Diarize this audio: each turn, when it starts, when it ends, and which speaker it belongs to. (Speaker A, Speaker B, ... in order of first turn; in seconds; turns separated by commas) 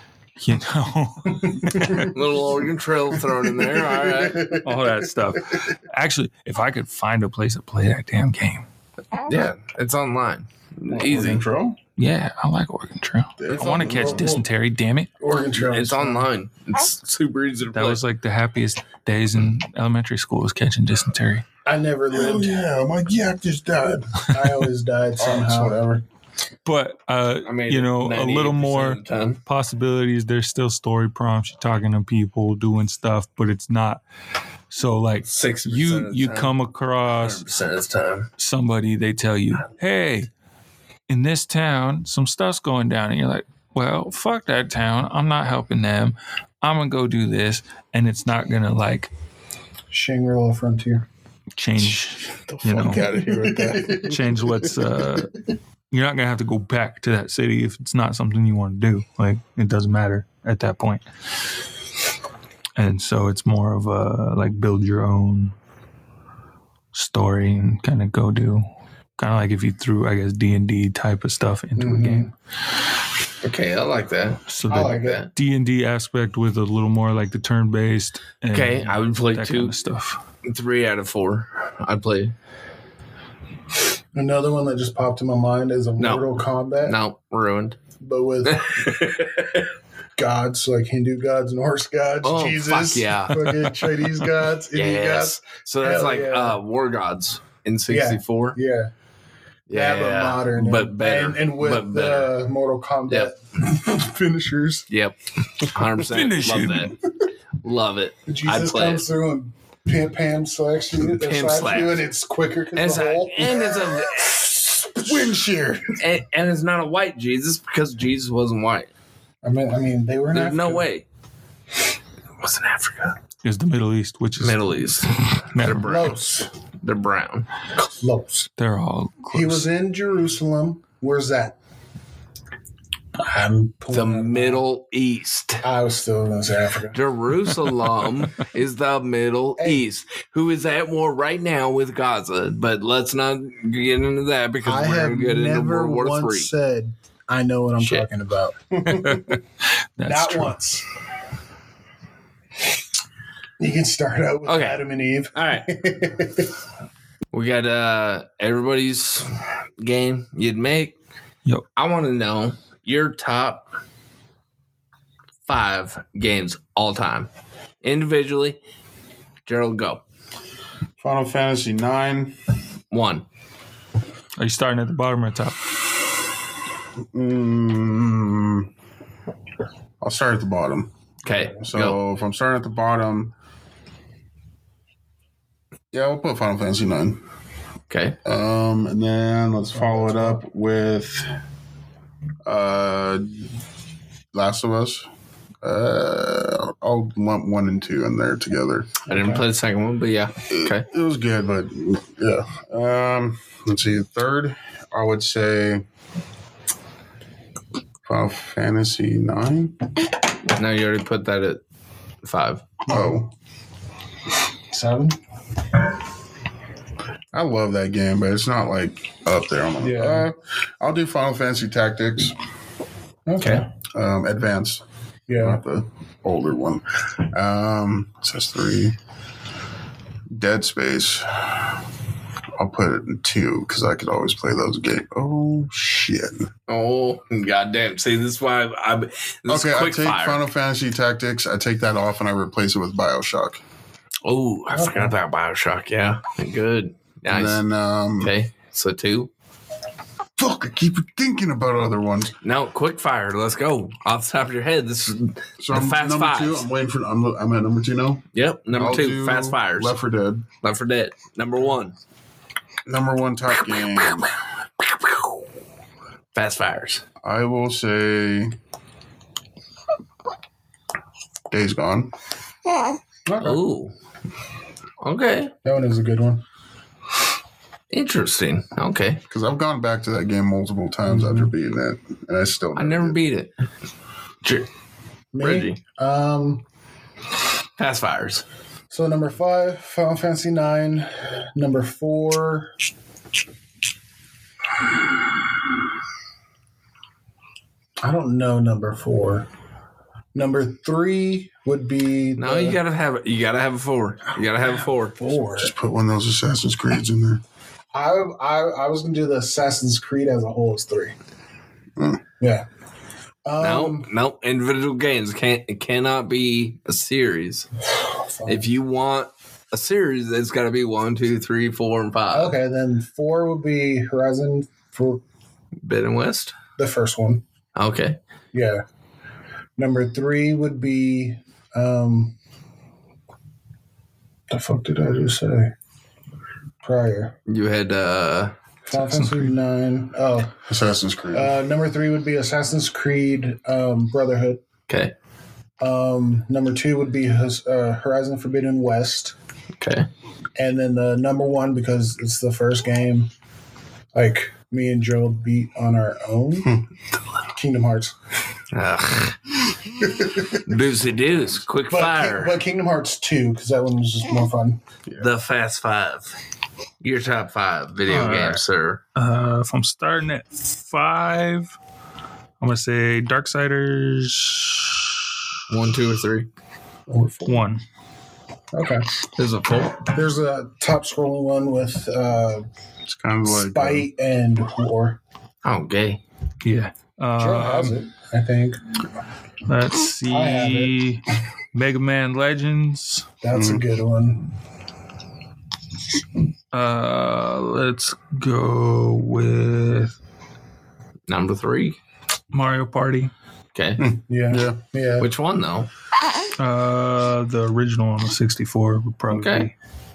Speaker A: 0.4-2.1, Speaker B: 1.8-2.1, Speaker C: 1.8-4.5, Speaker A: 4.6-8.7, Speaker C: 9.2-11.4, Speaker D: 10.9-11.8, Speaker A: 12.0-15.1, Speaker D: 13.4-14.4, Speaker B: 13.8-14.5, Speaker B: 15.2-16.3, Speaker C: 15.6-18.0, Speaker A: 17.7-21.4, Speaker B: 21.6-22.6, Speaker D: 22.1-24.2, Speaker B: 24.3-25.8, Speaker D: 25.2-26.0, Speaker A: 26.6-34.0, Speaker C: 27.4-29.4, Speaker A: 34.7-37.4, Speaker C: 35.2-38.3, Speaker A: 38.4-40.3, Speaker A: 41.1-49.1, Speaker B: 49.9-51.1, Speaker A: 51.6-53.1, Speaker D: 51.8-54.8, Speaker B: 52.9-54.1, Speaker A: 54.0-55.4, Speaker A: 55.9-61.0, Speaker A: 62.8-65.5, Speaker A: 66.9-68.7, Speaker A: 69.2-72.3, Speaker B: 71.8-72.3, Speaker C: 73.4-75.3, Speaker A: 74.5-80.2, Speaker B: 74.7-75.2, Speaker C: 78.5-79.8, Speaker C: 80.4-82.3, Speaker B: 84.1-87.0, Speaker C: 86.0-87.8, Speaker B: 88.0-88.9, Speaker C: 88.5-89.7, Speaker B: 90.2-96.6, Speaker C: 92.2-93.6, Speaker C: 94.7-98.6, Speaker B: 97.9-98.9, Speaker C: 99.7-102.3, Speaker B: 99.7-104.9, Speaker C: 104.9-107.0, Speaker A: 106.0-106.9, Speaker C: 107.6-109.1, Speaker B: 108.3-115.2, Speaker C: 111.1-112.1, Speaker C: 112.8-114.4, Speaker D: 115.0-116.0, Speaker C: 116.0-118.9, Speaker B: 119.4-120.9, Speaker C: 120.3-121.0, Speaker C: 122.4-123.2, Speaker A: 123.4-126.1, Speaker C: 124.4-126.2, Speaker B: 125.8-126.5, Speaker C: 126.8-127.5, Speaker B: 127.8-128.5, Speaker A: 128.6-129.7, Speaker B: 129.3-131.6, Speaker B: 133.2-134.6, Speaker C: 133.9-135.7, Speaker B: 135.6-137.0, Speaker C: 136.9-146.5, Speaker B: 144.6-149.4, Speaker C: 147.8-148.1, Speaker A: 148.9-149.4, Speaker A: 150.0-150.6, Speaker B: 150.0-150.8, Speaker B: 153.6-156.5, Speaker C: 154.4-155.7, Speaker C: 157.3-161.0, Speaker C: 161.8-163.7, Speaker C: 165.5-167.3, Speaker C: 167.8-168.6, Speaker C: 169.5-170.0, Speaker D: 171.0-172.3, Speaker C: 172.9-173.3, Speaker A: 174.4-175.6, Speaker D: 177.1-178.7, Speaker D: 180.0-180.9, Speaker C: 181.2-182.0, Speaker D: 181.6-183.3, Speaker D: 185.9-187.2, Speaker C: 187.9-188.2, Speaker D: 188.2-191.3, Speaker B: 189.7-190.4, Speaker D: 192.4-193.5, Speaker D: 194.3-195.1, Speaker D: 195.6-199.0, Speaker C: 199.1-200.9, Speaker B: 199.1-199.4, Speaker D: 200.5-205.8, Speaker D: 208.1-209.8, Speaker C: 210.5-211.6, Speaker C: 212.2-212.7, Speaker B: 212.9-213.2, Speaker D: 212.9-213.3, Speaker B: 214.7-215.2, Speaker D: 217.3-222.4, Speaker B: 219.8-220.3, Speaker B: 223.3-223.7, Speaker C: 223.4-223.7, Speaker D: 223.9-224.8, Speaker B: 225.3-225.6, Speaker D: 225.4-229.0, Speaker D: 230.3-231.8, Speaker D: 232.6-236.5, Speaker C: 236.7-240.4, Speaker D: 239.5-243.6, Speaker C: 244.2-247.6, Speaker B: 244.8-245.2, Speaker D: 247.3-248.3, Speaker C: 248.2-249.3, Speaker D: 250.4-252.4, Speaker C: 252.4-256.7, Speaker D: 255.6-260.5, Speaker C: 258.3-260.0, Speaker C: 260.6-261.9, Speaker D: 262.9-264.3, Speaker C: 263.6-264.3, Speaker C: 266.3-267.0, Speaker D: 267.2-268.6, Speaker D: 271.5-272.1, Speaker B: 273.3-273.6, Speaker C: 273.4-273.9, Speaker C: 275.0-275.5, Speaker B: 275.6-276.4, Speaker C: 277.9-279.2, Speaker D: 279.3-283.2, Speaker B: 281.1-281.5, Speaker C: 282.8-283.5, Speaker C: 284.4-284.7, Speaker B: 285.3-286.6, Speaker C: 285.4-285.8, Speaker C: 287.8-288.4, Speaker B: 288.9-292.7, Speaker B: 298.0-299.5, Speaker B: 300.3-302.8, Speaker C: 302.4-305.2, Speaker B: 304.6-305.7, Speaker D: 305.6-307.4, Speaker B: 307.9-311.1, Speaker D: 312.0-312.2, Speaker B: 312.4-312.7, Speaker B: 313.4-314.1, Speaker C: 313.6-317.7, Speaker B: 318.1-318.7, Speaker C: 318.5-322.6, Speaker B: 322.3-325.2, Speaker C: 325.8-326.6, Speaker B: 326.8-327.4, Speaker C: 327.8-328.2, Speaker B: 328.5-328.8, Speaker B: 329.8-332.4, Speaker B: 334.5-335.7, Speaker B: 336.8-337.4, Speaker C: 337.5-338.5, Speaker B: 338.9-340.6, Speaker A: 338.9-339.5, Speaker D: 340.7-341.6, Speaker B: 341.3-344.6, Speaker C: 344.9-345.1, Speaker B: 345.8-349.4, Speaker C: 349.8-350.1, Speaker B: 350.6-353.3, Speaker B: 354.1-356.8, Speaker B: 357.5-358.1, Speaker C: 358.7-359.4, Speaker C: 360.5-362.6, Speaker B: 361.9-364.8, Speaker C: 365.2-366.4, Speaker C: 367.0-369.0, Speaker A: 368.1-368.6, Speaker A: 369.1-371.8, Speaker A: 372.6-375.1, Speaker C: 375.7-376.5, Speaker B: 377.1-377.6, Speaker A: 377.4-377.8, Speaker B: 378.7-379.1, Speaker C: 379.3-380.1, Speaker B: 380.0-382.7, Speaker D: 383.1-384.1, Speaker B: 383.4-385.2, Speaker C: 385.6-386.2, Speaker A: 386.6-388.0, Speaker B: 387.4-388.8, Speaker A: 389.7-393.3, Speaker B: 390.3-390.9, Speaker B: 393.4-394.5, Speaker D: 393.5-393.8, Speaker A: 396.7-400.2, Speaker C: 401.3-402.0, Speaker A: 402.5-403.3, Speaker C: 403.7-404.0, Speaker D: 404.0-404.8, Speaker B: 404.3-405.3, Speaker C: 405.2-405.9, Speaker A: 406.6-409.7, Speaker C: 409.3-409.7